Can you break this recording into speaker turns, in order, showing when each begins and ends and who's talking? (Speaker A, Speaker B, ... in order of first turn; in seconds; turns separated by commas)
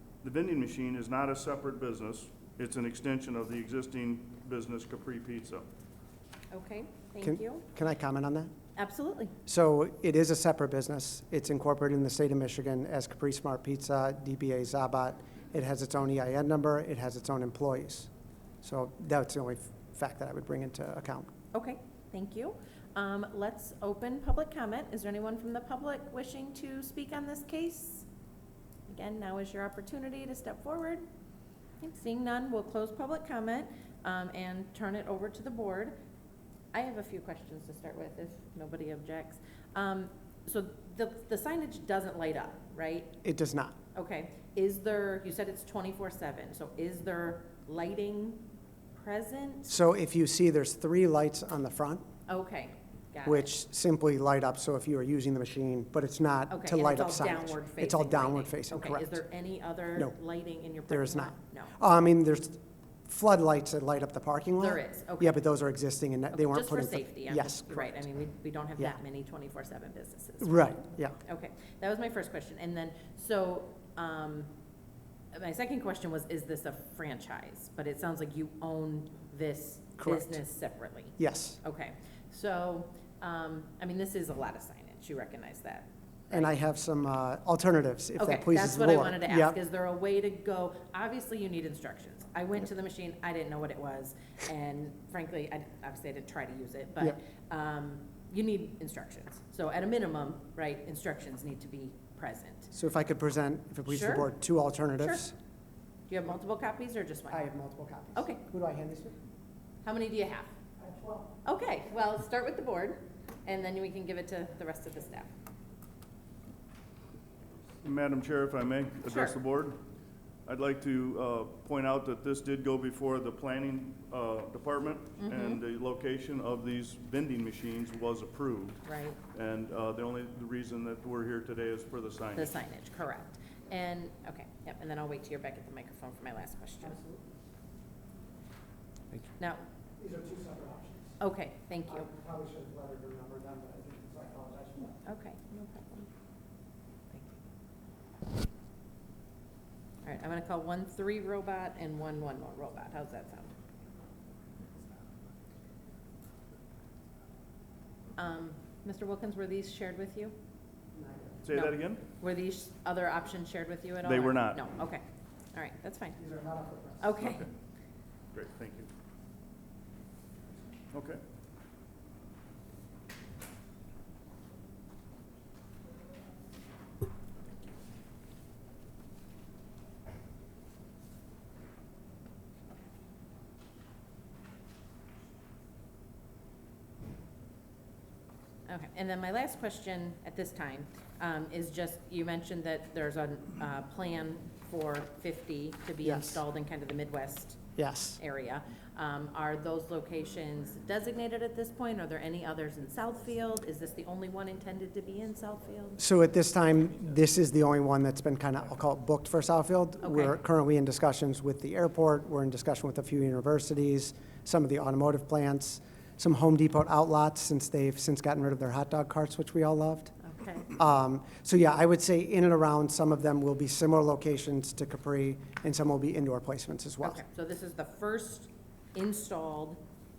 Speaker A: 0.2-5.7, Speaker B: 6.5-7.7, Speaker C: 7.2-8.5, Speaker B: 8.8-9.3, Speaker C: 9.5-18.1, Speaker C: 18.6-21.3, Speaker B: 21.5-28.1, Speaker B: 28.9-31.0, Speaker B: 31.8-35.9, Speaker B: 36.7-43.1, Speaker C: 43.2-43.8, Speaker B: 44.0-49.7, Speaker C: 49.7-52.0, Speaker B: 52.3-53.5, Speaker C: 53.2-59.2, Speaker B: 56.5-61.7, Speaker C: 60.9-68.0, Speaker B: 64.6-65.4, Speaker B: 66.3-74.5, Speaker C: 70.4-71.2, Speaker B: 75.3-86.5, Speaker C: 80.0-80.4, Speaker C: 81.2-81.6, Speaker C: 86.3-89.6, Speaker B: 88.2-102.7, Speaker C: 102.7-105.3, Speaker B: 103.9-104.3, Speaker B: 106.1-107.5, Speaker C: 107.3-109.2, Speaker B: 108.2-108.4, Speaker B: 109.8-110.5, Speaker C: 110.8-111.4, Speaker B: 111.5-115.3, Speaker A: 117.8-119.8, Speaker B: 119.1-119.4, Speaker A: 120.5-132.6, Speaker B: 125.2-125.6, Speaker B: 128.8-129.2, Speaker B: 132.3-137.0, Speaker C: 136.8-137.2, Speaker C: 140.0-141.1, Speaker B: 141.2-142.1, Speaker C: 141.9-145.0, Speaker B: 145.1-146.1, Speaker B: 147.1-147.4, Speaker B: 150.0-153.5, Speaker B: 158.2-160.3, Speaker A: 161.4-162.0, Speaker B: 161.5-166.2, Speaker A: 164.0-164.6, Speaker C: 166.2-167.2, Speaker B: 167.0-167.5, Speaker A: 167.2-167.5, Speaker A: 168.3-168.9, Speaker A: 170.9-171.2, Speaker B: 188.7-197.6, Speaker C: 196.0-196.4, Speaker C: 197.8-198.2, Speaker B: 198.2-206.0, Speaker C: 206.0-220.1, Speaker B: 210.0-210.4, Speaker B: 220.2-220.7, Speaker C: 220.7-227.2, Speaker B: 227.0-229.8